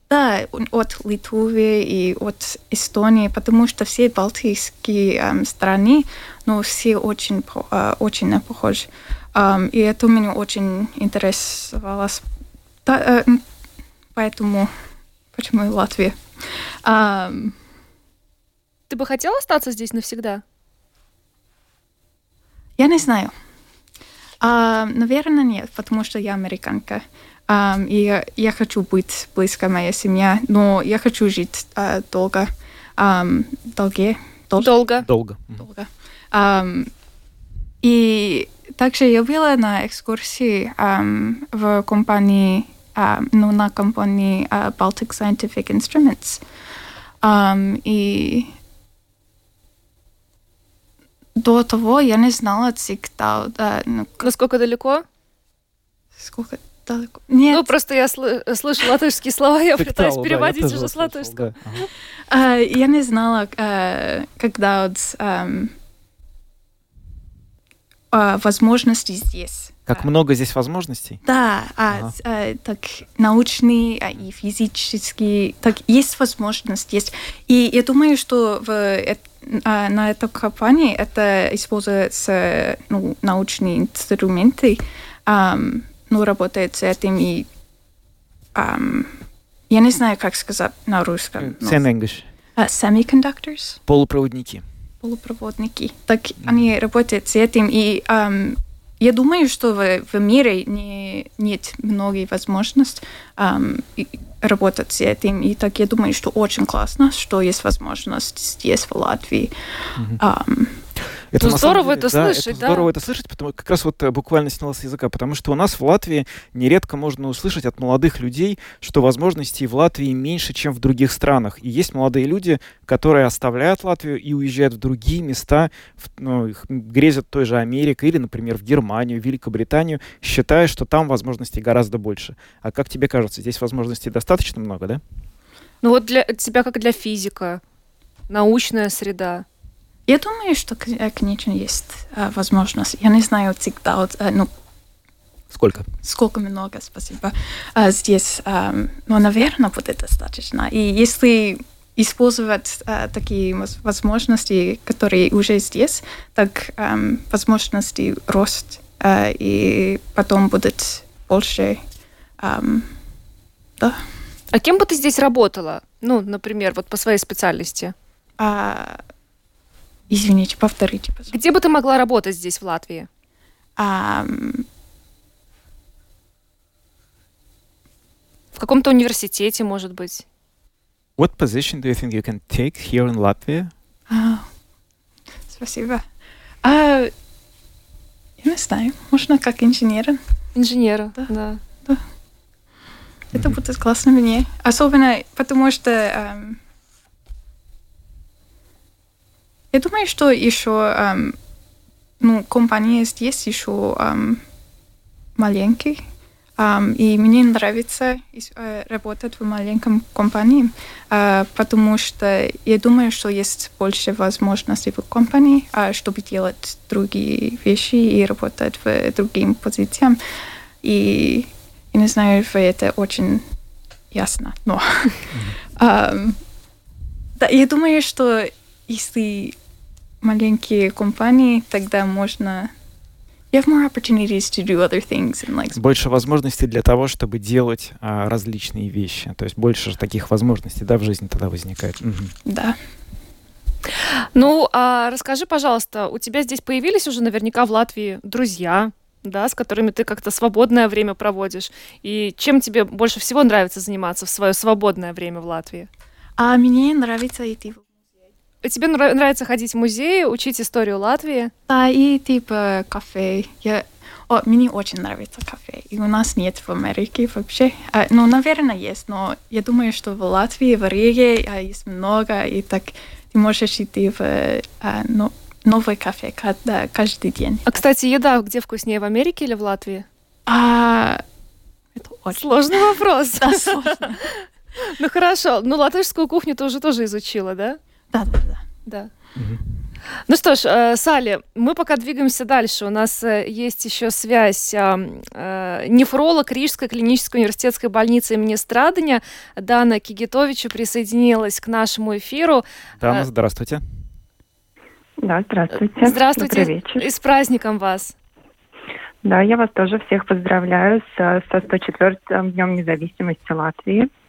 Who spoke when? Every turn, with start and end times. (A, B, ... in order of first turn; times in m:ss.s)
0:00.1-0:12.2 A
0:12.8-0:13.4 A
0:14.1-0:14.7 A
0:15.3-0:16.2 A
0:16.8-0:17.6 A
0:18.9-0:20.4 B
0:22.8-0:23.3 A
0:24.4-0:34.7 A
0:34.6-0:35.0 B
0:35.0-0:35.6 C
0:35.5-0:36.9 A
0:37.8-0:46.4 A
0:47.2-0:48.5 A
0:51.4-0:54.3 A
0:54.2-0:55.0 B
0:56.2-0:57.7 A
0:57.5-1:01.5 B
0:59.8-1:01.8 C
1:02.3-1:05.7 A
1:08.1-1:10.1 A
1:09.9-1:11.2 C
1:11.2-1:27.5 A
1:28.5-1:31.8 A
1:31.4-1:32.3 C
1:32.6-1:33.8 A
1:33.9-1:34.6 C
1:35.0-1:49.5 A
1:50.2-1:50.8 A
1:51.3-2:15.0 C
1:51.4-1:52.9 B
2:15.8-2:17.6 B
2:18.3-2:19.4 B
2:20.1-2:24.5 A
2:25.5-2:25.9 C
2:26.0-2:41.8 A
2:42.4-2:42.9 A
2:44.5-2:47.9 B
2:48.4-2:49.0 A
2:50.1-2:51.3 A
2:51.3-2:53.1 B
2:53.8-2:54.6 A
2:58.6-3:00.2 B
3:01.2-3:03.7 C
3:04.1-3:04.5 A
3:05.5-3:06.0 A
3:06.6-3:07.1 A
3:08.4-3:10.2 A
3:10.5-3:11.6 B
3:13.3-3:16.6 A
3:19.7-3:21.4 A
3:22.2-3:24.4 A
3:25.4-3:26.0 A
3:26.6-3:40.2 A
3:40.8-3:43.4 A
3:44.1-3:46.4 A
3:47.4-3:49.6 A
3:50.2-3:52.7 A
3:53.5-3:55.8 A
3:55.7-4:02.3 C
4:02.4-4:02.8 A
4:04.3-4:15.9 B
4:16.4-4:18.1 A
4:18.6-4:21.5 B
4:21.7-4:37.8 A
4:37.7-4:40.0 B
4:40.5-4:41.2 A
4:42.0-4:42.8 A
4:42.3-4:47.8 B
4:43.4-4:44.2 A
4:48.1-4:48.7 A
4:50.3-5:03.3 B
5:03.0-5:03.8 C
5:05.2-5:07.0 D
5:05.7-5:08.1 B
5:09.2-5:14.1 D